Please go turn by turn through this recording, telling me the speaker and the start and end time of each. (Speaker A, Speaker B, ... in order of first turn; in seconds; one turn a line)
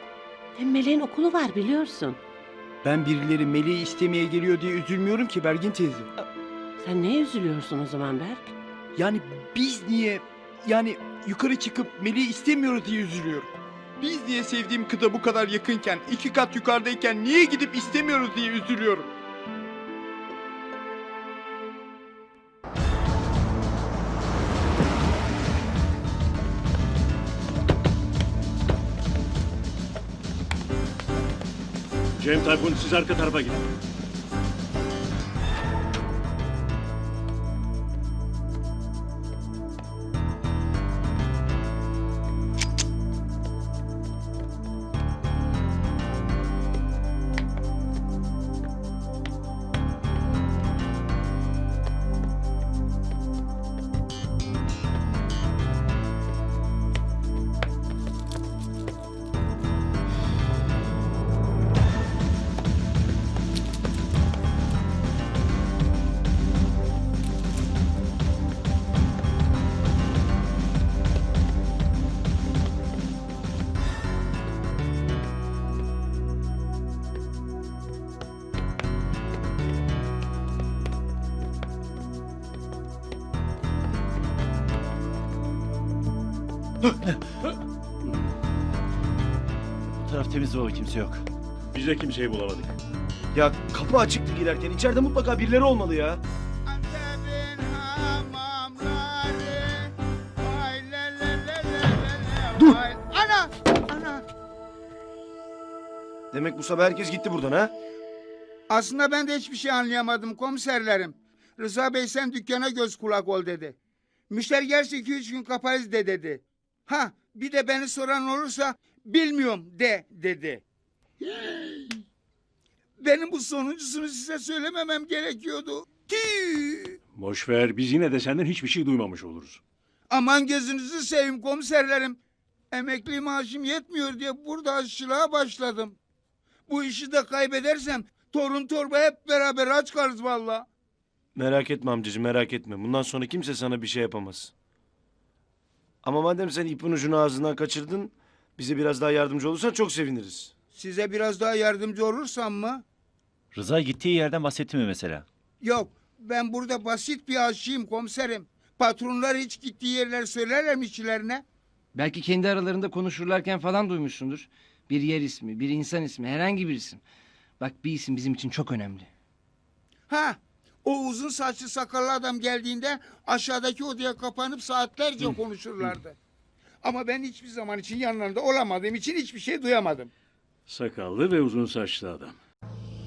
Speaker A: 0.6-2.2
Speaker B: 2.8-6.1
Speaker A: 6.8-8.5
Speaker B: 9.0-19.1
Speaker C: 32.2-33.6
Speaker D: 90.0-91.2
Speaker C: 91.7-92.8
Speaker E: 93.3-96.2
Speaker F: 96.7-104.2
Speaker E: 106.3-107.7
Speaker F: 108.7-113.8
Speaker F: 114.3-120.6
Speaker F: 121.2-122.0
Speaker F: 123.0-127.0
Speaker C: 127.2-129.6
Speaker F: 130.1-132.2
Speaker F: 132.7-136.0
Speaker F: 136.7-140.7
Speaker E: 141.3-144.5
Speaker E: 146.0-150.5
Speaker F: 150.7-152.8
Speaker D: 153.5-155.2
Speaker F: 155.6-161.4
Speaker G: 161.9-167.0
Speaker G: 167.6-169.1
Speaker F: 170.1-176.2
Speaker F: 176.8-180.1
Speaker C: 180.7-182.4